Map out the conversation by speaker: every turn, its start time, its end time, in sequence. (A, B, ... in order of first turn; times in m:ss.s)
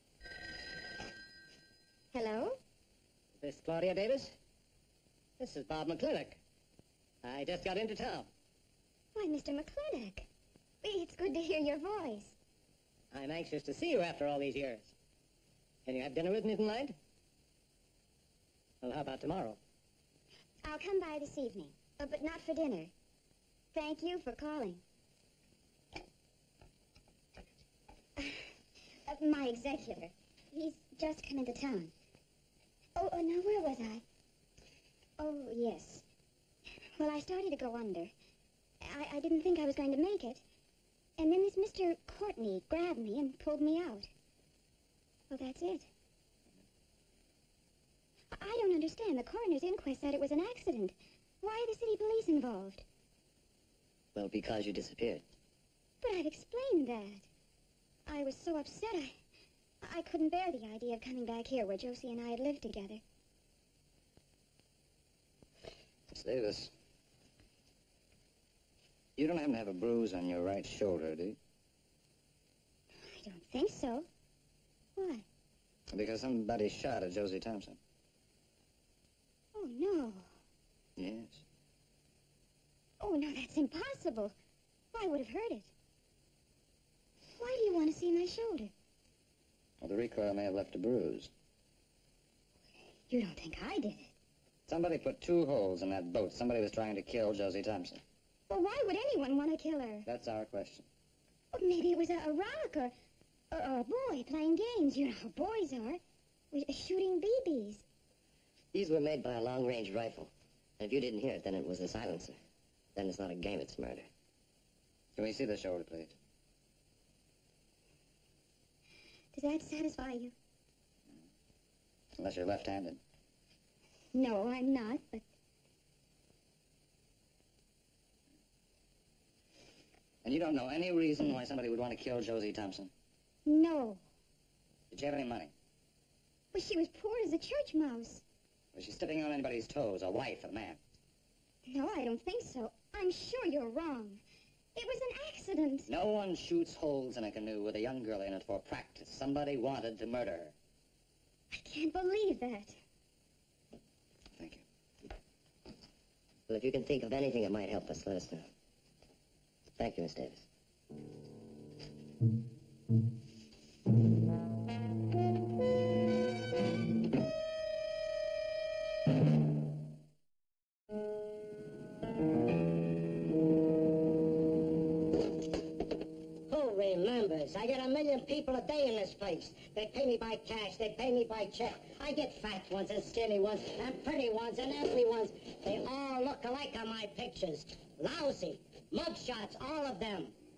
0:02.1-0:02.6 A
0:03.4-0:04.3 B
0:05.4-0:06.4 B
0:07.2-0:08.3 B
0:09.1-0:10.3 A
0:10.8-0:12.3 A
0:13.1-0:14.9 B
0:15.8-0:16.9 B
0:18.8-0:19.6 B
0:20.6-0:22.9 A
0:23.7-0:24.8 A
0:28.2-0:28.4 A
0:29.0-0:31.9 A
0:33.0-0:34.0 A
0:35.2-0:36.0 A
0:37.0-0:38.1 A
0:38.8-0:40.4 A
0:41.2-0:44.1 A
0:45.3-0:45.9 A
0:48.3-0:52.8 A
0:54.1-0:55.2 C
0:56.0-0:57.3 A
0:58.1-0:59.1 A
0:59.8-1:03.0 A
1:06.1-1:06.7 D
1:09.2-1:11.4 D
1:13.1-1:14.1 A
1:15.0-1:15.2 A
1:15.9-1:17.8 D
1:19.5-1:20.3 A
1:21.0-1:21.4 D
1:23.0-1:24.3 A
1:24.9-1:25.7 A
1:27.4-1:28.7 A
1:29.8-1:31.3 D
1:33.1-1:34.1 A
1:34.7-1:38.0 D
1:38.5-1:40.1 A
1:40.0-1:40.8 D
1:41.5-1:42.9 A
1:43.5-1:46.0 A
1:46.5-1:47.8 A
1:48.7-1:52.4 C
1:53.0-1:54.1 C
1:55.2-1:56.1 D
1:59.3-2:00.3 A
2:02.2-2:03.0 D
2:04.1-2:05.2 A
2:10.2-2:12.9 D
2:13.4-2:14.0 A
2:14.9-2:15.5 D
2:16.5-2:18.2 A
2:18.7-2:20.8 D
2:21.7-2:24.2 A
2:24.7-2:25.9 A
2:25.9-2:30.5 D
2:31.5-2:32.8 A
2:34.4-2:34.6 D
2:36.5-2:38.5 C
2:39.8-2:40.4 C
2:56.5-3:10.3 E